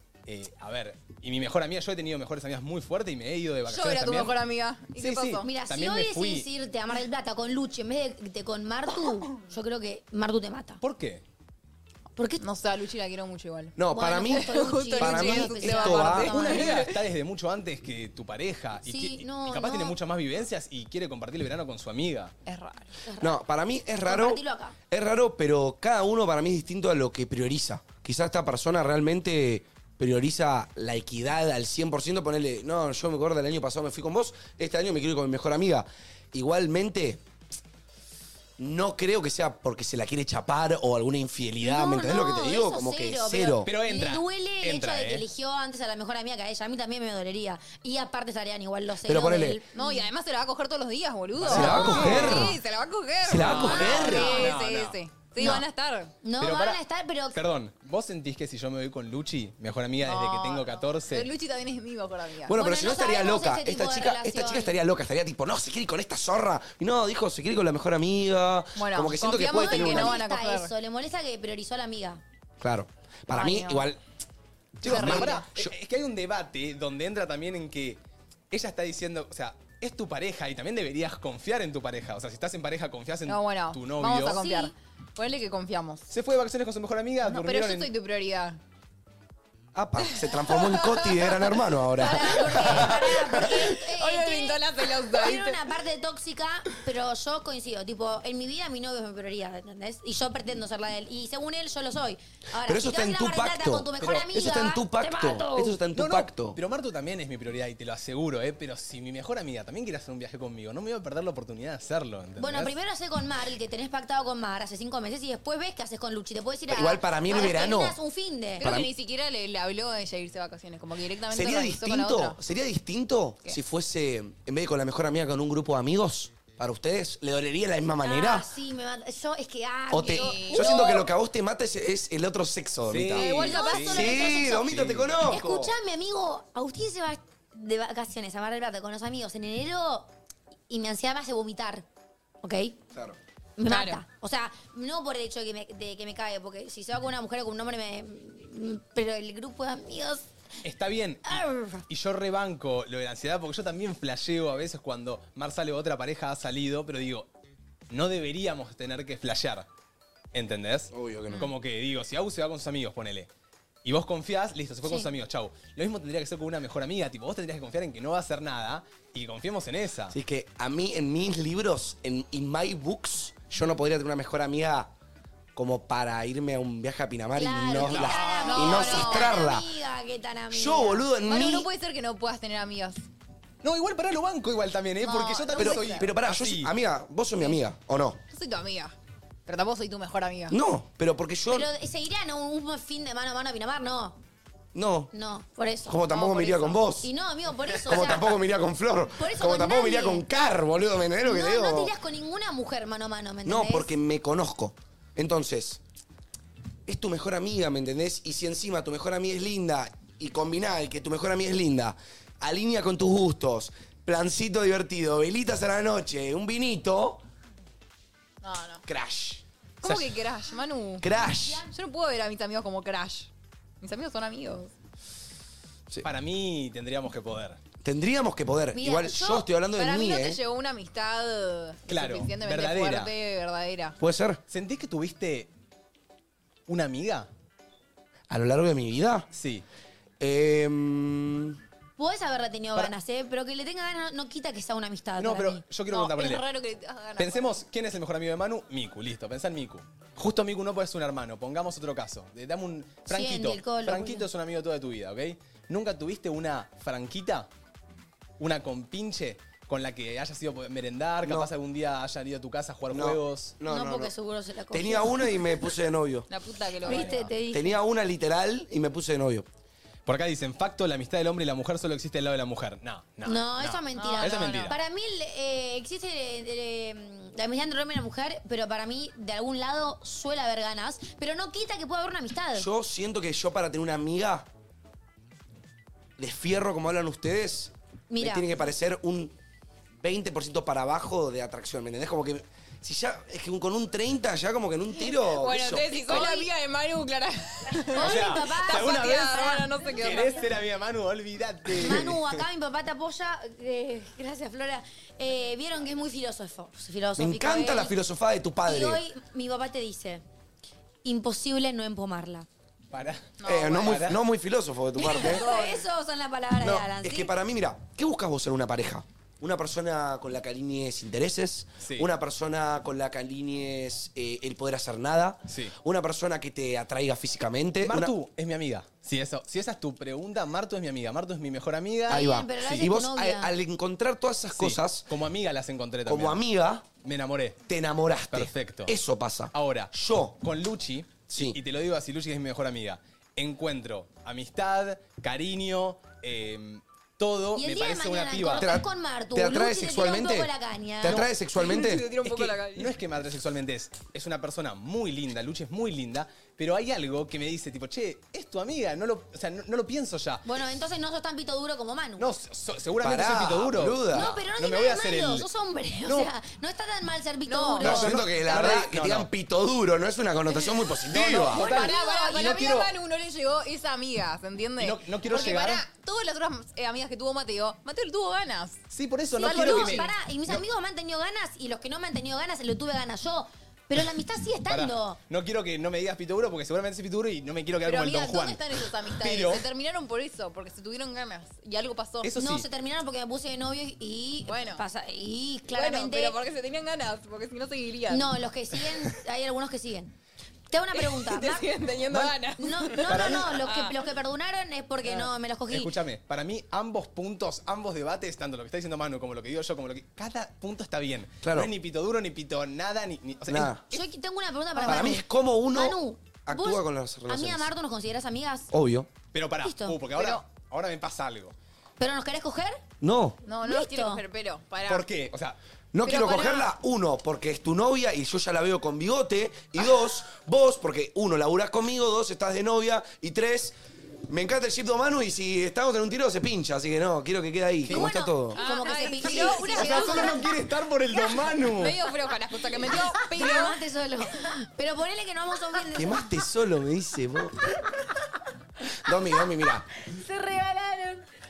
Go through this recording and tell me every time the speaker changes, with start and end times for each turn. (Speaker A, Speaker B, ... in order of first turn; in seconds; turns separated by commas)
Speaker A: 0.3-4.4, Speaker B: 3.7-5.5, Speaker A: 5.0-6.5, Speaker C: 5.4-10.8, Speaker A: 10.8-11.2, Speaker C: 12.2-12.4, Speaker B: 12.4-17.0, Speaker D: 13.8-16.3, Speaker C: 13.9-16.7, Speaker A: 16.1-22.3, Speaker C: 18.9-20.0, Speaker B: 22.5-23.0, Speaker C: 23.1-23.4, Speaker D: 23.2-37.2, Speaker C: 24.0-24.8, Speaker D: 38.6-43.7, Speaker C: 41.6-50.1, Speaker A: 43.7-45.2, Speaker D: 49.1-49.6, Speaker B: 49.7-56.1, Speaker A: 51.4-52.5, Speaker D: 51.4-52.5, Speaker D: 53.2-54.5, Speaker A: 53.4-55.5, Speaker C: 53.5-54.1, Speaker C: 56.2-57.4, Speaker A: 56.4-56.8, Speaker A: 57.3-61.3, Speaker B: 60.0-62.6, Speaker D: 62.5-70.2, Speaker C: 62.6-64.8, Speaker B: 68.8-70.7, Speaker C: 69.5-72.2, Speaker D: 72.6-74.0, Speaker B: 73.3-73.9, Speaker D: 74.8-75.7, Speaker A: 74.8-84.7, Speaker B: 74.8-75.5, Speaker B: 83.3-86.1, Speaker A: 86.1-87.9, Speaker B: 87.2-88.6, Speaker D: 89.8-92.8, Speaker B: 90.3-91.5, Speaker C: 92.0-105.8, Speaker B: 92.0-95.6, Speaker D: 102.7-106.6, Speaker A: 104.0-104.3, Speaker A: 106.0-112.8, Speaker C: 112.4-118.7, Speaker D: 116.7-118.0, Speaker B: 118.6-122.4, Speaker D: 118.6-118.9, Speaker D: 121.3-128.5, Speaker C: 128.0-131.1, Speaker D: 129.9-133.3, Speaker B: 130.0-131.0, Speaker A: 132.9-135.2, Speaker B: 133.2-134.2, Speaker C: 133.2-134.7, Speaker D: 133.8-135.7, Speaker C: 135.3-140.1, Speaker C: 140.7-141.8, Speaker C: 142.4-142.8, Speaker C: 143.6-150.2, Speaker B: 143.7-144.0, Speaker A: 150.6-157.3, Speaker C: 151.2-151.8, Speaker A: 157.9-159.7, Speaker A: 160.3-163.3, Speaker D: 160.9-161.5, Speaker A: 163.8-170.2, Speaker D: 170.1-174.9, Speaker D: 175.6-179.7, Speaker C: 177.4-181.1, Speaker A: 177.8-178.7, Speaker B: 178.4-179.3, Speaker D: 180.5-181.7, Speaker B: 181.2-183.0, Speaker A: 183.6-186.7, Speaker B: 185.0-186.1, Speaker D: 185.6-188.2, Speaker B: 188.3-188.9, Speaker B: 189.5-190.6, Speaker D: 190.5-191.7, Speaker C: 191.5-194.2, Speaker D: 194.7-195.1, Speaker C: 195.1-198.4, Speaker D: 195.9-197.1, Speaker D: 197.9-201.9, Speaker C: 199.2-200.2, Speaker C: 201.2-203.9, Speaker D: 203.5-205.8, Speaker D: 206.9-217.2, Speaker B: 218.4-218.8, Speaker D: 218.9-219.4, Speaker B: 219.8-221.1, Speaker A: 219.8-220.1, Speaker D: 221.0-221.6, Speaker C: 221.2-221.7, Speaker B: 221.7-223.3, Speaker B: 223.8-224.7, Speaker A: 226.0-227.6, Speaker D: 227.8-230.4, Speaker C: 228.7-229.5, Speaker B: 229.8-234.0, Speaker A: 231.9-233.1, Speaker D: 234.0-234.4, Speaker A: 234.5-235.5, Speaker A: 236.7-237.3, Speaker D: 238.3-239.3, Speaker A: 239.3-239.7, Speaker D: 240.2-241.6, Speaker C: 242.0-245.6, Speaker A: 245.2-246.4, Speaker B: 245.9-247.6, Speaker A: 247.2-257.5, Speaker C: 253.1-254.3, Speaker A: 258.4-263.6, Speaker D: 261.2-261.5, Speaker D: 262.9-264.1, Speaker C: 263.6-265.6, Speaker D: 264.7-266.3, Speaker B: 266.3-267.3, Speaker A: 266.9-267.3, Speaker C: 266.9-267.8, Speaker D: 267.5-269.5, Speaker A: 270.1-274.8, Speaker C: 273.2-282.7, Speaker B: 273.9-274.8, Speaker D: 282.6-284.5, Speaker D: 286.2-289.3, Speaker C: 288.1-288.6, Speaker D: 290.0-296.3, Speaker B: 295.0-300.4, Speaker C: 296.1-296.5, Speaker C: 297.9-300.3, Speaker A: 298.0-299.4, Speaker A: 299.9-302.4, Speaker C: 301.8-307.9, Speaker D: 307.2-309.0, Speaker C: 308.7-310.2, Speaker C: 311.0-312.5, Speaker A: 312.9-314.2, Speaker B: 313.4-313.9, Speaker D: 313.4-315.5, Speaker C: 315.0-317.3, Speaker B: 315.1-315.8, Speaker D: 316.6-328.1, Speaker A: 321.8-322.1, Speaker A: 325.5-325.7, Speaker A: 327.8-332.9, Speaker C: 332.1-333.5, Speaker D: 332.1-335.1, Speaker A: 334.5-336.4, Speaker D: 336.1-336.9, Speaker A: 337.0-337.6, Speaker D: 337.7-340.4, Speaker A: 338.3-338.9, Speaker A: 339.5-348.7, Speaker D: 341.3-341.6, Speaker C: 347.6-351.3, Speaker D: 348.6-352.2, Speaker A: 351.0-351.3, Speaker B: 351.6-352.9, Speaker A: 352.2-360.4, Speaker C: 360.4-362.3, Speaker A: 362.2-365.5, Speaker D: 363.0-364.4, Speaker C: 364.1-368.1, Speaker A: 366.0-366.3, Speaker B: 367.5-367.9, Speaker A: 367.8-369.3, Speaker D: 367.8-371.6, Speaker A: 371.1-372.9, Speaker B: 371.5-378.8, Speaker C: 371.6-372.7, Speaker A: 374.8-375.8, Speaker A: 378.9-380.6, Speaker B: 379.4-380.1, Speaker C: 379.4-385.2, Speaker A: 384.7-389.7, Speaker B: 387.9-392.3, Speaker A: 392.2-392.7, Speaker C: 392.4-396.4, Speaker B: 394.5-394.8, Speaker B: 395.7-398.3, Speaker C: 398.1-400.1, Speaker C: 400.7-401.7, Speaker B: 400.9-403.9, Speaker C: 402.6-405.9, Speaker A: 403.0-403.6, Speaker A: 405.7-413.8, Speaker D: 411.4-411.7, Speaker D: 413.5-413.8, Speaker C: 413.9-418.7, Speaker D: 414.8-417.7, Speaker D: 418.7-419.1, Speaker A: 419.3-421.6, Speaker C: 419.6-420.0, Speaker B: 420.1-420.4, Speaker C: 422.0-422.8, Speaker D: 423.0-423.4, Speaker B: 423.5-425.1, Speaker C: 423.6-424.2, Speaker A: 424.9-425.6, Speaker D: 425.9-433.8, Speaker B: 426.0-426.7, Speaker D: 434.3-438.6, Speaker A: 437.9-438.1, Speaker C: 437.9-440.4, Speaker B: 438.5-440.5, Speaker A: 439.2-442.0, Speaker B: 441.6-443.8, Speaker C: 443.1-446.3, Speaker D: 445.9-447.7, Speaker D: 449.0-449.9, Speaker B: 450.4-451.2